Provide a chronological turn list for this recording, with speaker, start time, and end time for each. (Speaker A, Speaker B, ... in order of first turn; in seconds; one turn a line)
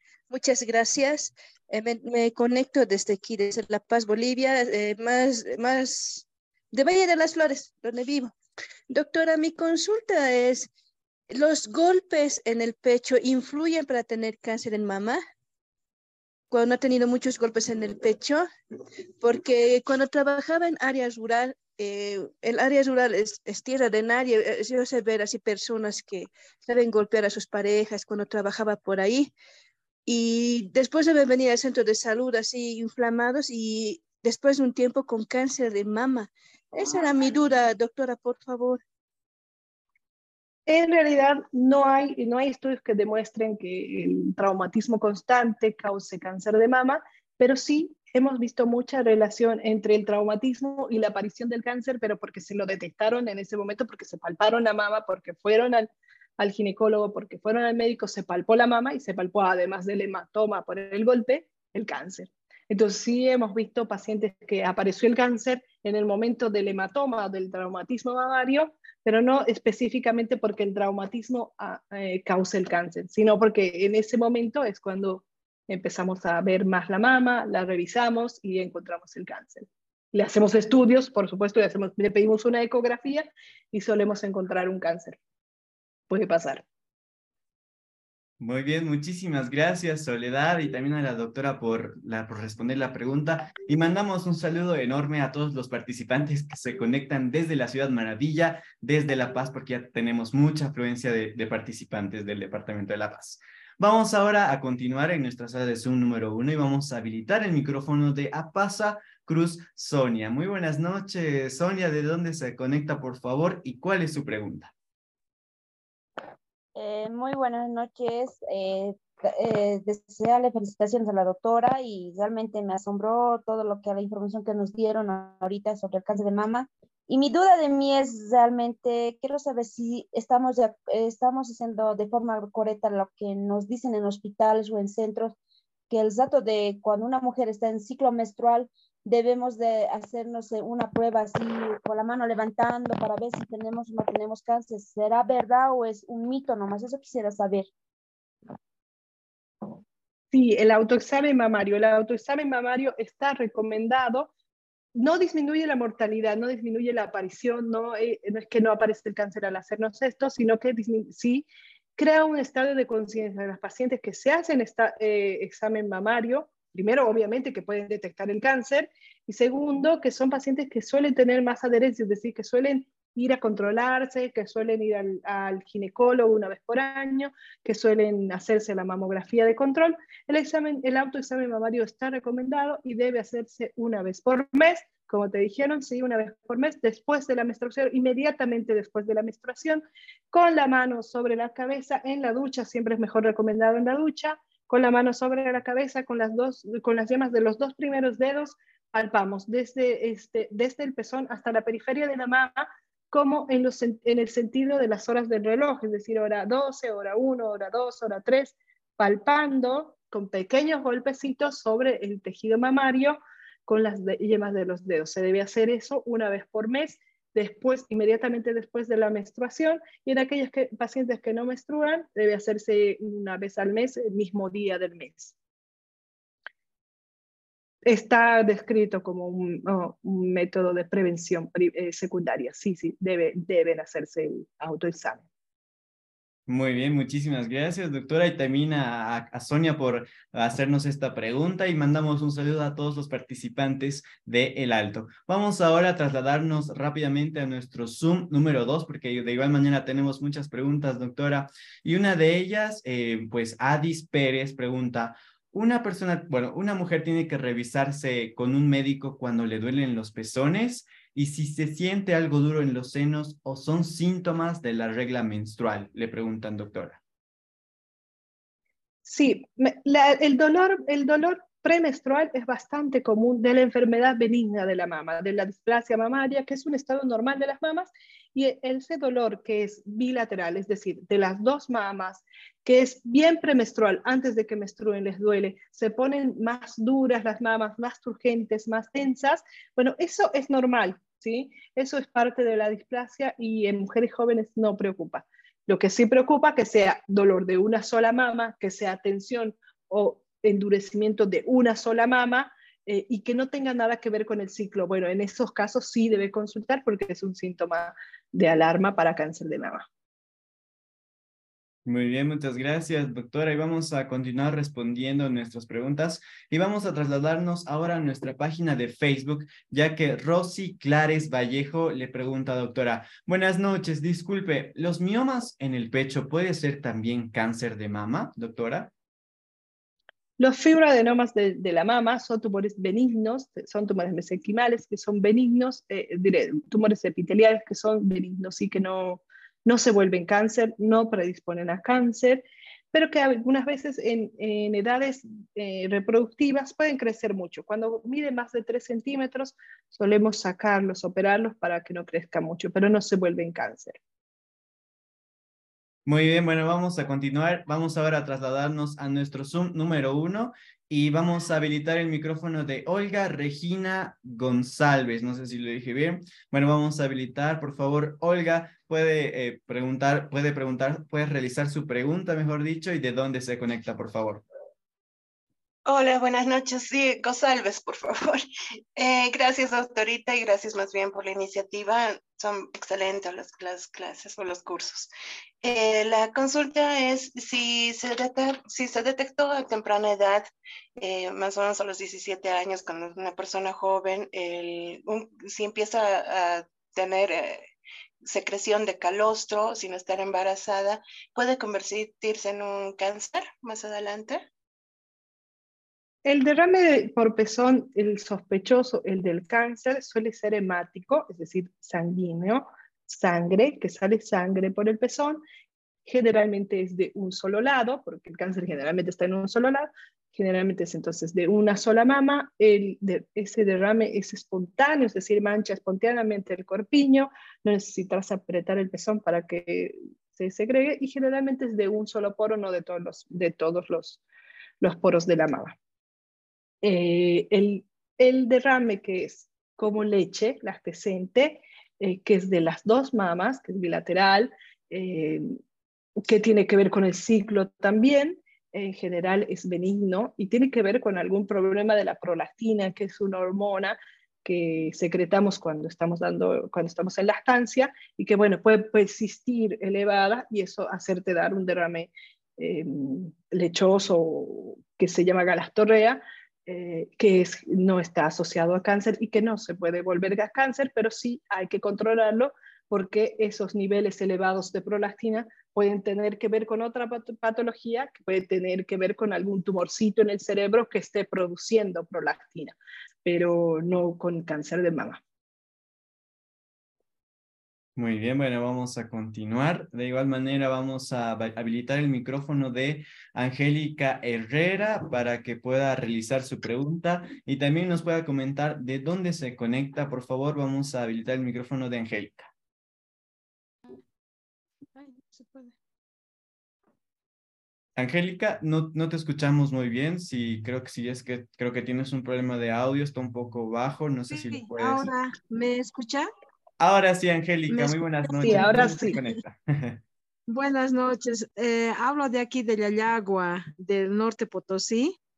Speaker A: 0.3-8.3
Speaker A: 8.9-10.7
Speaker A: 11.3-15.2
Speaker A: 16.5-18.4
Speaker A: 19.2-29.3
Speaker A: 30.1-38.8
Speaker B: 40.7-85.2
Speaker B: 86.1-86.6
Speaker C: 88.4-114.7
Speaker D: 116.8-135.3
Speaker D: 135.9-147.7
Speaker B: 150.3-154.3
Speaker B: 154.9-225.4
Speaker B: 227.8-235.2
Speaker C: 236.5-267.0
Speaker B: 269.0-309.9
Speaker C: 311.9-328.9
Speaker B: 330.4-354.0
Speaker C: 356.1-374.4
Speaker E: 375.9-378.4
Speaker E: 379.0-385.1
Speaker E: 385.6-397.6
Speaker E: 398.2-404.4
Speaker B: 406.2-415.4
Speaker B: 416.1-434.2
Speaker B: 434.8-435.8
Speaker B: 436.8-445.6
Speaker B: 446.2-485.2
Speaker C: 488.0-502.5
Speaker F: 505.0-505.7
Speaker C: 508.0-515.1
Speaker F: 514.3-516.3
Speaker C: 516.8-520.0
Speaker F: 517.7-518.9
Speaker B: 518.4-519.2
Speaker F: 520.5-525.2